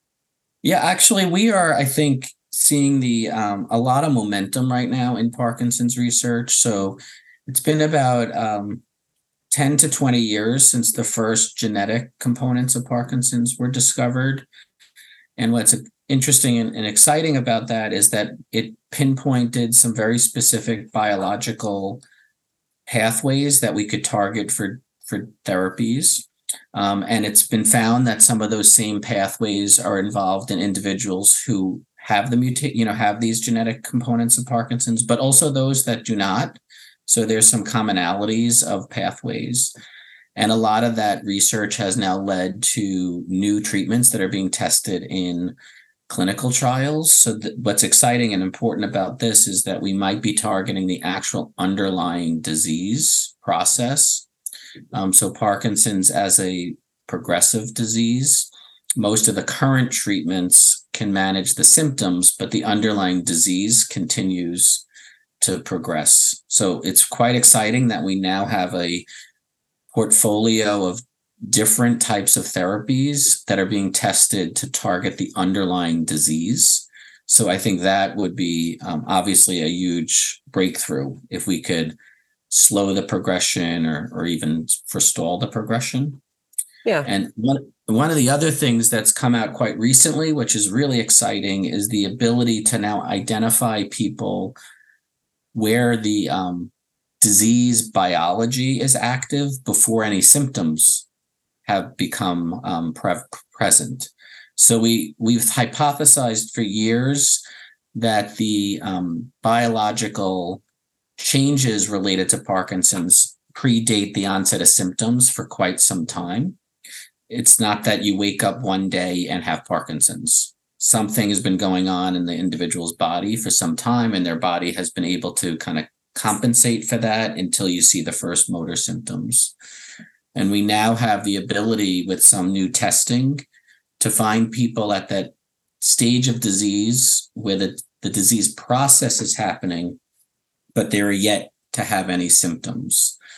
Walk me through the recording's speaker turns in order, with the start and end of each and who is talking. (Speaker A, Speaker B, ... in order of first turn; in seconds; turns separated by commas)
Speaker A: 0.6-8.8, Speaker A: 9.5-14.4, Speaker A: 15.4-22.0, Speaker A: 22.9-39.7, Speaker A: 40.4-45.5, Speaker A: 46.1-54.2, Speaker A: 54.9-64.8, Speaker A: 65.4-69.0, Speaker A: 69.9-82.0, Speaker A: 82.5-86.2, Speaker A: 87.0-94.5, Speaker A: 95.5-101.0, Speaker A: 101.7-107.4, Speaker A: 107.9-110.6, Speaker A: 111.2-116.6, Speaker A: 117.3-129.5, Speaker A: 130.3-133.4, Speaker A: 134.0-140.0, Speaker A: 140.7-143.2